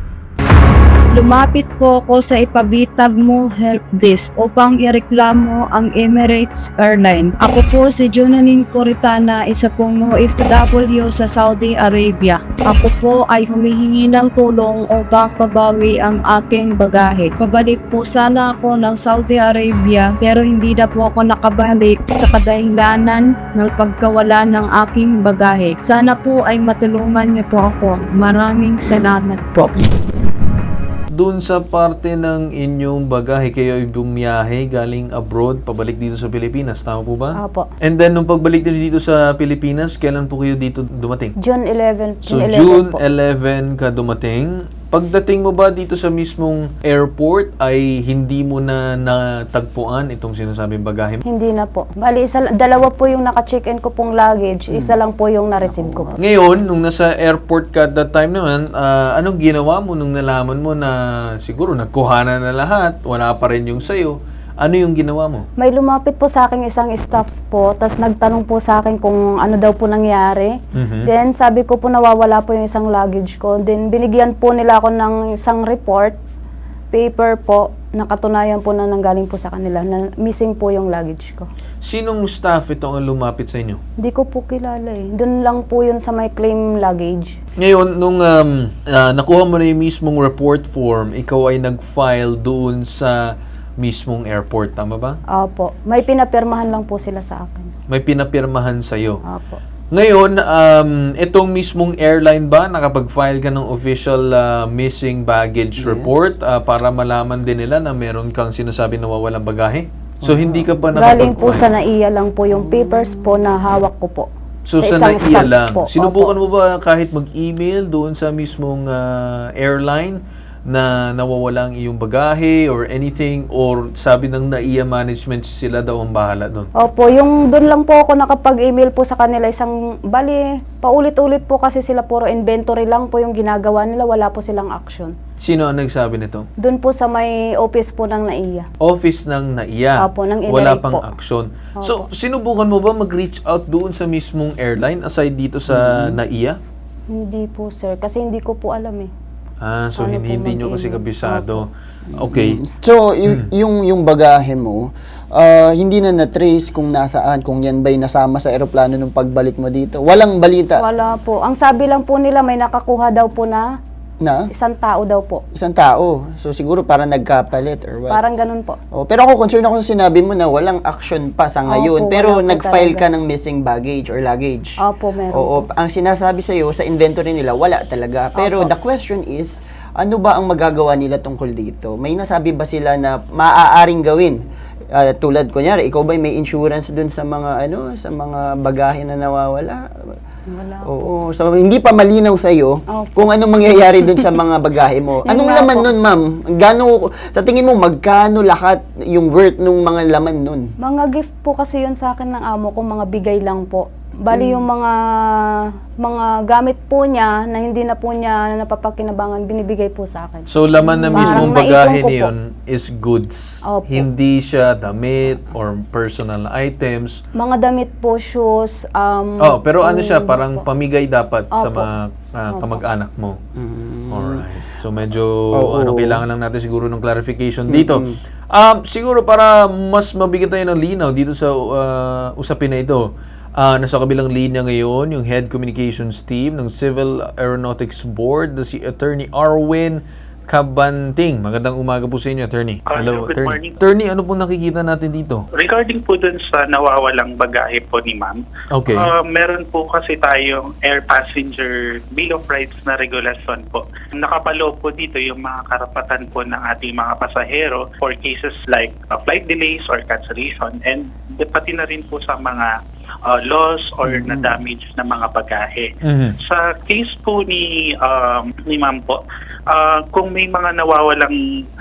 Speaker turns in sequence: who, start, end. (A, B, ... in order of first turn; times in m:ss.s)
0:01.1-0:29.9 A
0:31.1-0:41.3 B
0:37.4-0:37.7 C
0:41.4-0:43.0 C
0:42.3-0:51.2 B
0:51.3-0:56.1 C
0:54.7-0:55.0 D
0:55.6-0:56.2 D
0:56.2-1:05.4 B
1:05.6-1:10.5 C
1:10.7-1:11.1 B
1:11.0-1:16.2 C
1:16.9-1:21.4 C
1:21.8-1:23.8 B
1:24.0-1:27.3 C
1:27.6-1:35.2 B
1:35.4-1:37.7 C
1:37.9-1:39.2 B
1:39.3-1:39.6 C
1:39.9-1:51.6 B
1:45.8-1:46.2 D
1:50.2-1:50.8 D
1:50.9-1:54.3 C
1:52.5-1:53.4 D
1:54.6-2:06.7 B
1:54.8-1:56.3 C
2:06.8-2:15.1 C
2:15.4-2:16.5 B
2:16.6-2:18.7 C
2:18.8-2:26.6 B
2:20.0-2:21.1 C
2:21.8-2:22.0 C
2:25.7-2:26.2 D
2:27.1-2:29.1 C
2:29.6-2:32.6 B
2:30.0-2:31.6 C
2:32.2-2:40.8 D
2:40.8-2:43.7 C
2:44.2-2:44.5 D
2:44.5-2:45.4 C
2:45.5-2:48.2 D
2:48.1-2:48.8 C
2:48.9-2:54.7 D
2:51.7-2:53.0 C
2:54.8-2:55.7 C
2:55.3-3:04.4 D
2:58.4-2:58.7 C
3:04.9-3:10.1 D
3:10.5-3:10.9 C
3:10.8-3:20.7 D
3:12.9-3:13.3 C
3:15.3-3:15.9 C
3:20.8-3:25.4 C
3:24.3-3:24.6 D
3:26.0-3:32.3 C
3:30.5-3:37.2 B
3:31.1-3:31.5 D
3:33.7-3:34.1 C
3:37.4-3:40.6 C
3:39.4-3:43.4 B
3:41.5-3:41.9 C
3:42.5-3:42.8 C
3:43.6-3:44.4 D
3:44.1-3:53.0 B
3:45.5-3:46.2 D
3:47.7-3:48.2 D
3:53.6-4:05.4 B
4:02.9-4:03.8 E
4:05.6-4:22.7 E
4:08.7-4:09.1 B
4:23.2-4:25.9 E
4:24.0-4:24.5 D
4:26.0-4:26.4 B
4:26.4-4:29.2 E
4:29.7-4:31.4 E